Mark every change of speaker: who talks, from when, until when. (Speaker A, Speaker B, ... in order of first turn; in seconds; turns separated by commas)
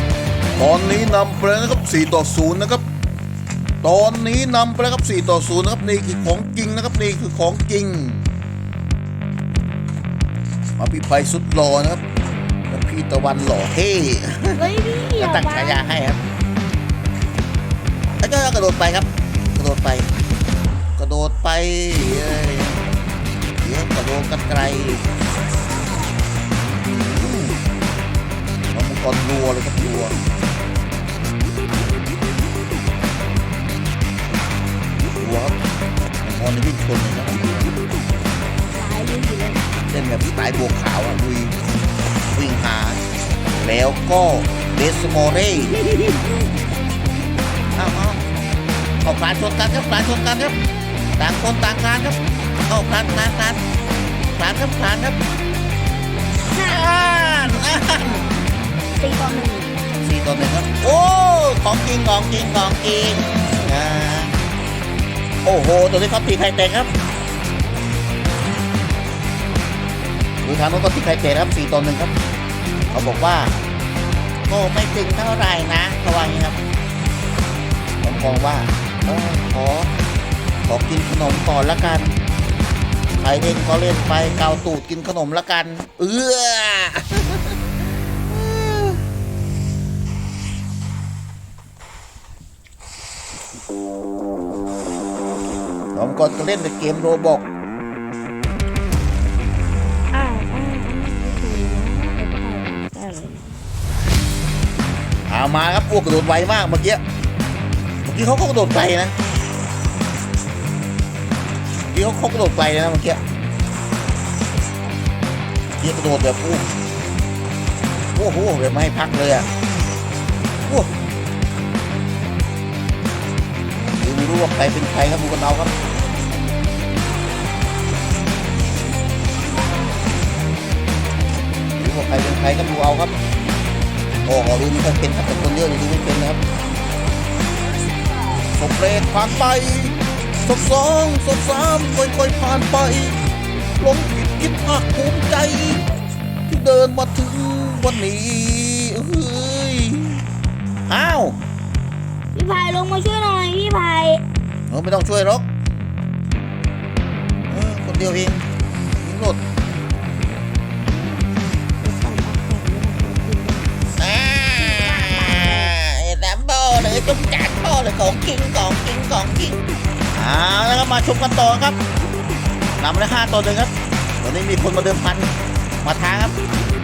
Speaker A: 0.5-2.8, Speaker A: 3.8-8.3, Speaker A: 10.8-12.0, Speaker A: 12.7-14.6, Speaker B: 14.5-15.9, Speaker A: 15.2-16.2, Speaker A: 18.2-20.1, Speaker A: 21.0-22.8, Speaker A: 23.6-25.1, Speaker A: 26.8-27.6, Speaker A: 28.7-30.2, Speaker A: 35.1-35.5, Speaker A: 36.2-37.7, Speaker B: 38.6-39.7, Speaker A: 39.7-41.6, Speaker A: 42.3-43.0, Speaker A: 43.6-45.8, Speaker B: 45.7-46.4, Speaker A: 47.7-48.2, Speaker A: 49.0-50.5, Speaker A: 51.2-52.2, Speaker A: 52.7-53.6, Speaker A: 54.4-55.2, Speaker B: 56.5-56.9, Speaker A: 56.6-58.2, Speaker B: 58.9-59.7, Speaker A: 60.0-64.4, Speaker A: 65.4-66.9, Speaker A: 70.4-72.1, Speaker A: 72.9-73.5, Speaker A: 74.5-76.6, Speaker A: 78.0-79.9, Speaker A: 80.6-82.1, Speaker A: 83.2-87.6, Speaker A: 88.3-89.0, Speaker A: 95.9-97.5, Speaker B: 100.1-103.6, Speaker A: 105.3-107.0, Speaker A: 108.0-109.1, Speaker A: 111.9-113.2, Speaker A: 115.8-116.7, Speaker A: 118.1-119.5, Speaker A: 120.6-120.9, Speaker A: 124.0-125.7, Speaker A: 131.8-133.1, Speaker A: 134.2-136.4, Speaker A: 138.6-143.2, Speaker A: 143.8-145.8, Speaker A: 146.5-150.2, Speaker A: 150.9-151.4, Speaker B: 152.3-154.2, Speaker A: 154.7-155.4, Speaker A: 157.5-158.4, Speaker A: 159.0-159.4, Speaker B: 161.8-163.7, Speaker A: 164.0-171.8, Speaker B: 164.6-165.7, Speaker A: 172.8-176.4